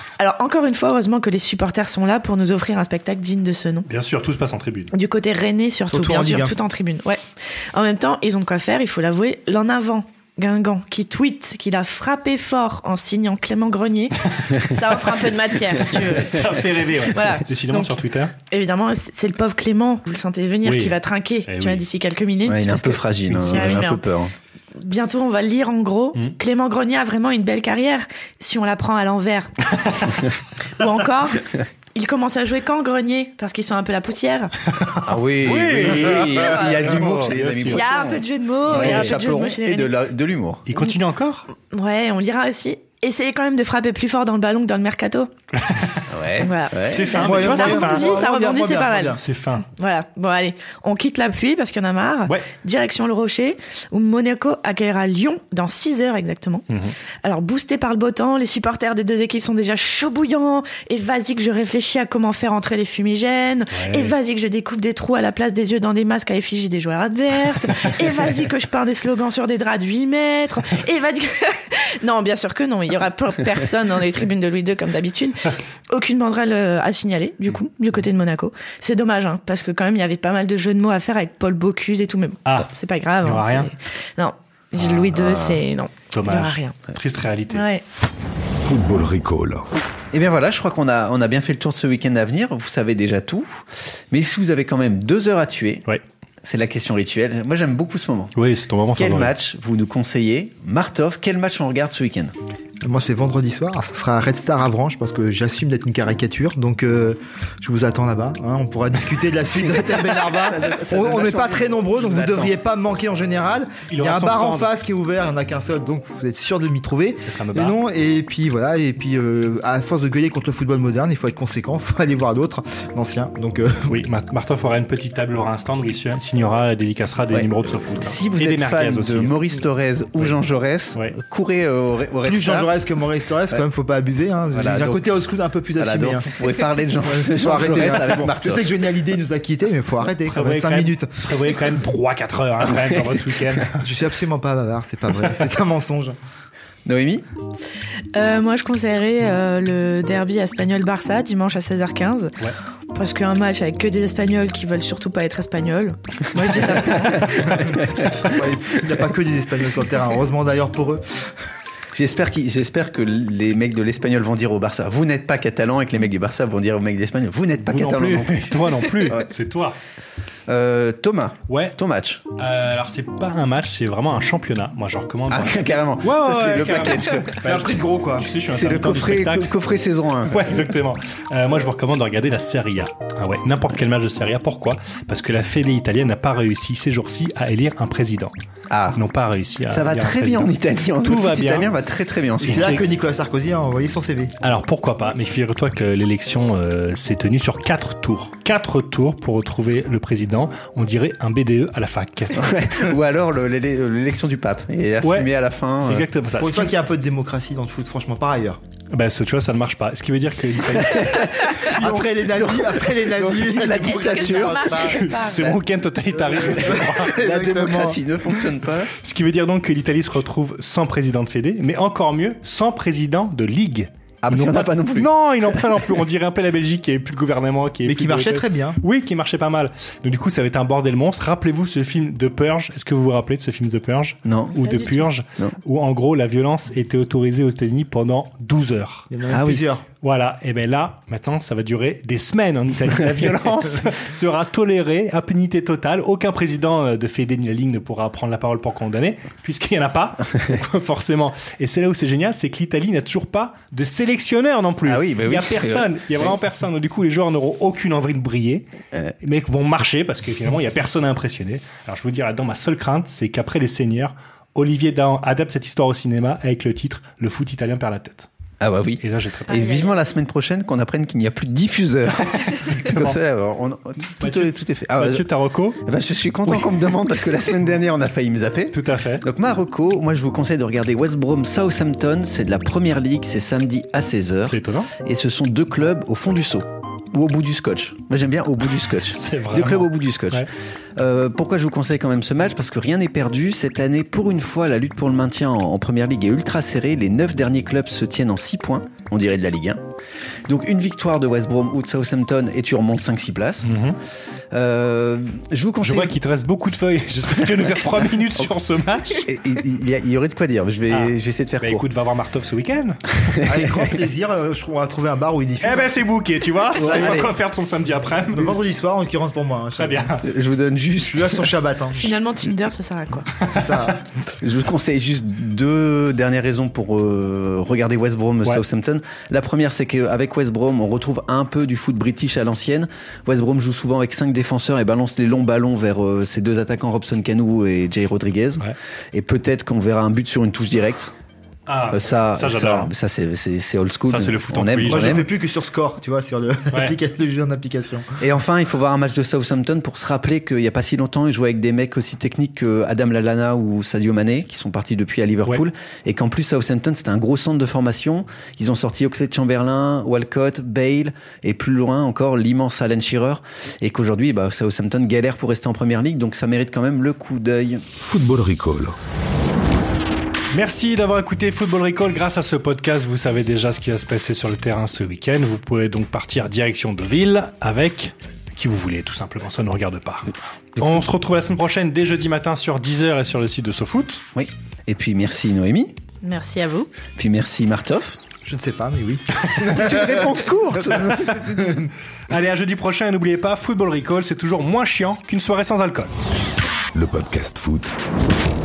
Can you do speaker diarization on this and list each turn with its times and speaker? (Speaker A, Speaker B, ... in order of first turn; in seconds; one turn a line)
Speaker A: 0.2-3.9
Speaker B: 3.9-4.9
Speaker A: 4.9-16.6
Speaker C: 5.9-6.6
Speaker B: 15.8-18.3
Speaker A: 17.1-24.0
Speaker B: 20.6-21.8
Speaker D: 22.5-24.3
Speaker B: 23.3-23.6
Speaker A: 24.8-29.7
Speaker A: 30.8-34.5
Speaker B: 34.7-37.8
Speaker D: 35.1-40.7
Speaker A: 37.7-39.9
Speaker B: 38.7-39.1
Speaker B: 40.7-41.5
Speaker A: 41.6-45.3
Speaker B: 45.6-46.0
Speaker D: 46.1-47.2
Speaker A: 46.4-49.2
Speaker B: 46.9-48.3
Speaker C: 47.2-49.2
Speaker B: 49.2-49.6
Speaker A: 49.7-56.7
Speaker B: 56.7-56.9
Speaker A: 57.2-86.8
Speaker B: 63.7-64.1
Speaker B: 83.2-83.7
Speaker D: 84.8-85.6
Speaker B: 86.1-87.6
Speaker A: 87.5-87.8
Speaker E: 88.6-89.7
Speaker D: 90.1-95.8
Speaker D: 96.4-98.3
Speaker B: 98.4-99.3
Speaker D: 99.0-102.3
Speaker C: 102.8-124.0
Speaker D: 109.7-112.5
Speaker B: 113.9-114.7
Speaker B: 117.3-117.8
Speaker B: 123.9-129.4
Speaker D: 127.3-132.7
Speaker C: 132.2-136.4
Speaker D: 134.5-135.0
Speaker D: 135.8-138.7
Speaker C: 137.0-141.2
Speaker B: 140.3-143.8
Speaker D: 142.6-143.6
Speaker C: 143.8-146.2
Speaker D: 146.8-147.2
Speaker A: 148.1-152.3
Speaker A: 152.9-157.4
Speaker B: 157.0-157.3
Speaker D: 157.3-158.3
Speaker C: 157.6-161.0
Speaker D: 161.9-169.2
Speaker B: 167.7-169.8
Speaker D: 170.5-172.2
Speaker B: 171.5-171.8
Speaker B: 172.4-179.5
Speaker D: 175.3-177.8
Speaker C: 177.4-178.3
Speaker D: 178.5-180.7
Speaker B: 180.3-188.3
Speaker D: 188.7-189.0
Speaker B: 188.9-190.5
Speaker D: 189.7-192.8
Speaker B: 191.0-191.7
Speaker B: 192.4-192.9
Speaker C: 192.4-194.3
Speaker B: 194.4-202.7
Speaker D: 202.3-206.1
Speaker B: 205.0-206.7
Speaker C: 206.4-208.6
Speaker B: 208.9-211.6
Speaker D: 210.8-215.6
Speaker C: 211.8-215.1
Speaker A: 213.7-215.4
Speaker B: 215.0-217.2
Speaker C: 216.2-218.0
Speaker D: 216.3-218.9
Speaker B: 219.0-239.1
Speaker D: 224.2-225.9
Speaker C: 227.8-228.8
Speaker D: 234.3-234.8
Speaker C: 239.1-239.9
Speaker D: 239.3-239.7
Speaker B: 239.9-258.7
Speaker D: 254.9-256.4
Speaker B: 259.2-268.3
Speaker D: 268.6-275.3
Speaker B: 269.0-269.6
Speaker A: 269.5-270.0
Speaker B: 272.5-273.2
Speaker B: 274.2-275.8
Speaker D: 275.8-299.8
Speaker B: 278.7-279.2
Speaker B: 284.5-284.9
Speaker B: 289.1-290.5
Speaker D: 300.5-303.7
Speaker B: 303.6-304.0
Speaker D: 304.5-306.1
Speaker B: 305.8-309.3
Speaker D: 307.4-307.8
Speaker D: 309.2-311.9
Speaker B: 310.9-313.0
Speaker D: 313.3-313.9
Speaker C: 313.5-316.0
Speaker B: 315.6-318.6
Speaker D: 316.8-317.3
Speaker C: 316.9-317.2
Speaker C: 318.3-320.2
Speaker B: 319.8-320.2
Speaker D: 320.2-321.5
Speaker C: 321.0-322.1
Speaker A: 322.0-323.3
Speaker C: 323.4-324.1
Speaker D: 324.4-341.1
Speaker B: 341.7-342.9
Speaker D: 341.9-345.3
Speaker B: 344.1-345.3
Speaker C: 344.9-348.1
Speaker B: 346.7-347.0
Speaker D: 348.2-367.9
Speaker E: 367.9-368.9
Speaker B: 370.5-384.2
Speaker D: 384.4-385.9
Speaker A: 386.2-386.9
Speaker D: 387.2-388.2
Speaker C: 388.4-390.3
Speaker D: 389.6-391.8
Speaker B: 391.0-391.5
Speaker B: 392.3-396.1
Speaker E: 396.9-398.0